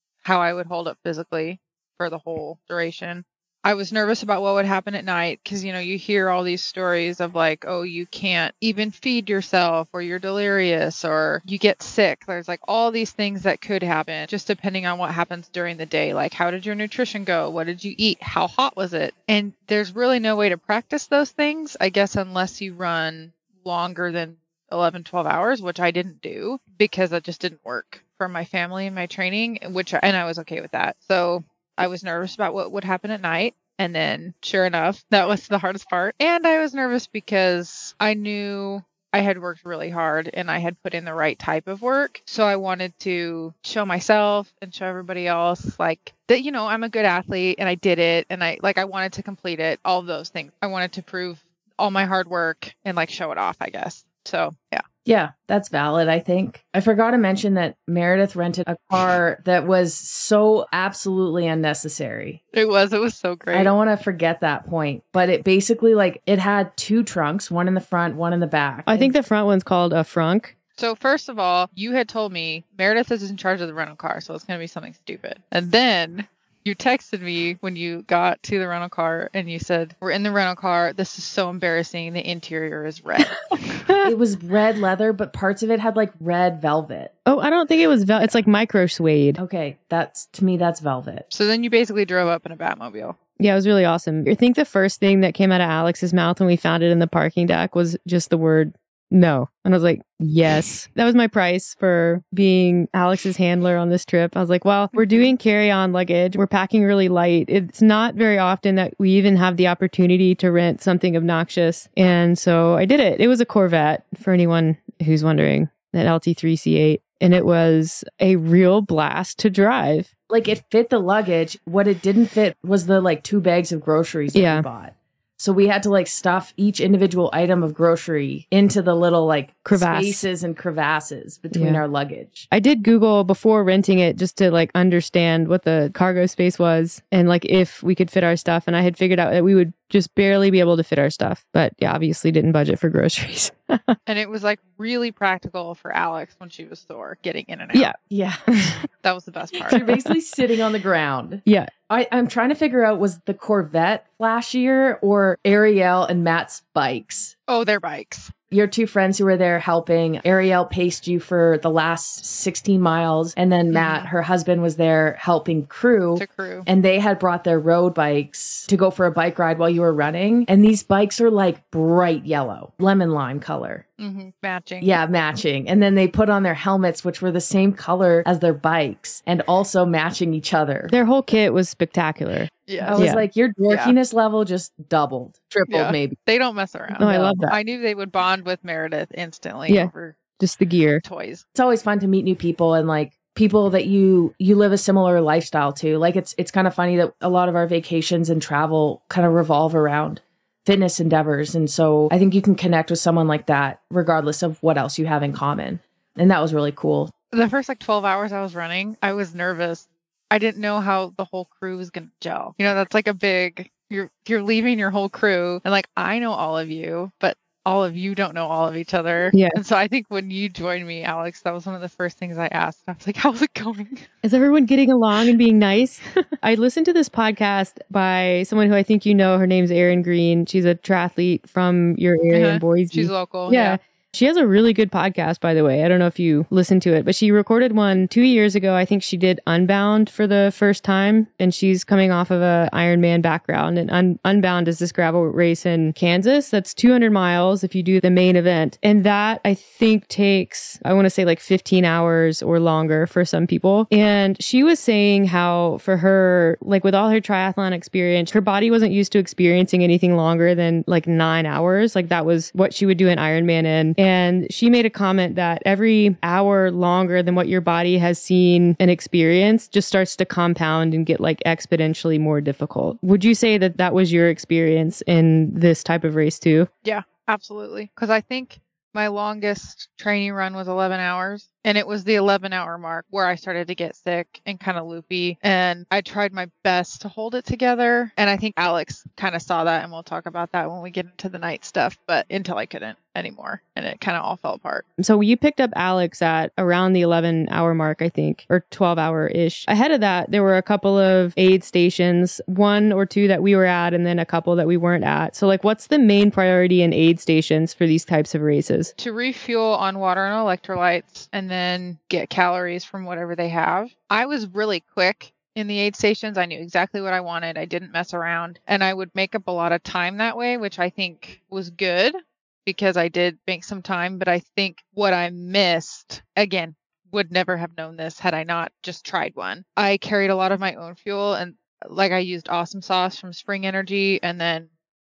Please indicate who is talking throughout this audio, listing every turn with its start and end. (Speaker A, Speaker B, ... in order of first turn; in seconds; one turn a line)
Speaker A: 0.2-54.8
Speaker B: 55.0-62.4
Speaker A: 62.5-63.7
Speaker B: 63.5-69.1
Speaker C: 68.9-70.5
Speaker A: 70.8-83.8
Speaker B: 84.0-87.1
Speaker C: 87.3-89.4
Speaker B: 89.4-91.3
Speaker A: 91.3-93.2
Speaker C: 93.4-120.1
Speaker A: 105.0-105.3
Speaker B: 120.3-132.5
Speaker C: 124.3-124.7
Speaker C: 129.7-130.2
Speaker C: 131.5-131.8
Speaker C: 132.5-144.0
Speaker A: 144.1-147.9
Speaker B: 148.1-148.6
Speaker C: 148.5-148.8
Speaker A: 149.0-150.0
Speaker B: 149.7-157.3
Speaker C: 149.7-150.2
Speaker C: 151.5-151.7
Speaker A: 157.5-158.3
Speaker B: 158.5-173.8
Speaker A: 163.7-164.1
Speaker A: 166.2-166.7
Speaker A: 174.0-175.0
Speaker B: 174.8-180.9
Speaker C: 180.9-183.3
Speaker A: 182.7-183.1
Speaker B: 182.8-186.2
Speaker A: 183.7-183.9
Speaker A: 185.7-190.2
Speaker B: 186.9-187.5
Speaker C: 187.0-187.6
Speaker C: 189.7-191.0
Speaker A: 191.0-191.4
Speaker B: 191.6-207.1
Speaker A: 207.3-224.0
Speaker C: 219.3-219.6
Speaker C: 224.2-276.7
Speaker A: 232.3-233.8
Speaker A: 276.9-294.9
Speaker C: 295.0-308.9
Speaker A: 309.0-334.7